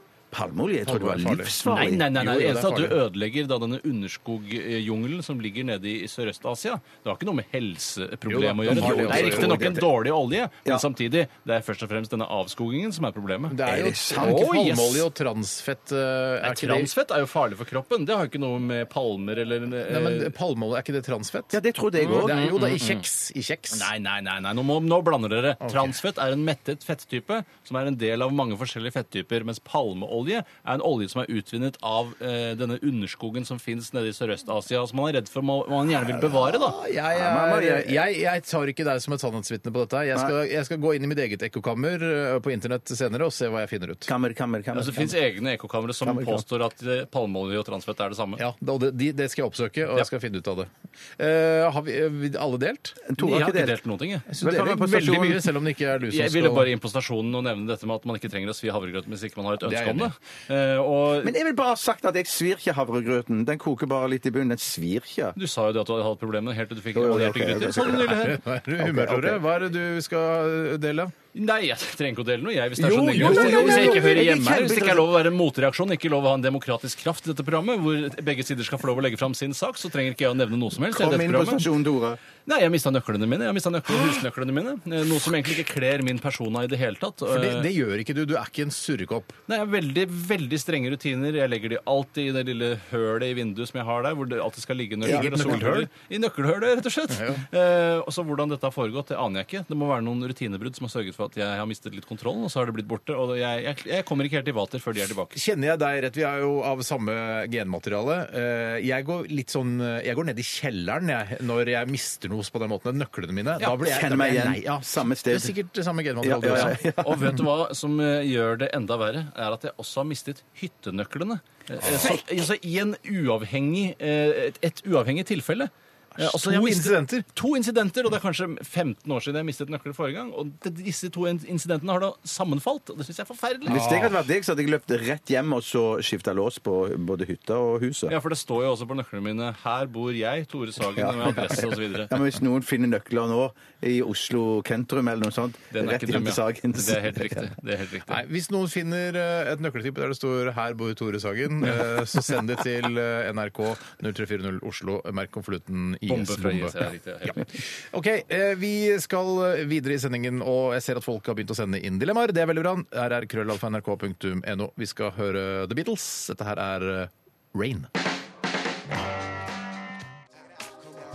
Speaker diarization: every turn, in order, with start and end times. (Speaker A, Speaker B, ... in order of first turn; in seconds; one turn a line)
Speaker A: 0.3-2.1
Speaker B: 0.8-3.0
Speaker C: 1.6-13.6
Speaker B: 8.3-9.7
Speaker A: 8.7-9.9
Speaker B: 13.5-16.9
Speaker A: 13.7-14.4
Speaker C: 14.1-15.1
Speaker C: 16.4-20.3
Speaker B: 19.9-23.9
Speaker A: 21.5-22.5
Speaker C: 22.0-23.0
Speaker C: 23.7-36.8
Speaker B: 25.6-25.9
Speaker B: 36.7-44.1
Speaker A: 36.8-38.0
Speaker A: 44.1-45.2
Speaker C: 44.7-48.4
Speaker A: 46.0-46.4
Speaker B: 48.4-53.0
Speaker A: 53.1-53.8
Speaker C: 53.2-54.3
Speaker B: 54.3-56.7
Speaker A: 54.4-55.5
Speaker C: 56.1-61.4
Speaker B: 59.6-60.1
Speaker A: 61.2-65.4
Speaker C: 65.4-68.4
Speaker A: 67.0-68.1
Speaker B: 68.0-71.1
Speaker A: 68.8-69.4
Speaker C: 71.3-81.7
Speaker A: 72.8-75.1
Speaker B: 73.1-74.0
Speaker A: 80.8-82.2
Speaker C: 82.5-87.7
Speaker B: 87.3-89.4
Speaker C: 89.5-105.4
Speaker A: 95.0-95.6
Speaker B: 95.0-95.9
Speaker B: 97.1-97.5
Speaker B: 105.3-116.8
Speaker A: 113.7-115.5
Speaker A: 116.2-117.4
Speaker C: 116.5-133.9
Speaker B: 126.2-127.3
Speaker A: 133.7-138.1
Speaker B: 133.7-134.2
Speaker C: 138.1-142.2
Speaker A: 140.9-147.5
Speaker C: 145.7-148.2
Speaker B: 148.1-167.9
Speaker C: 156.1-157.5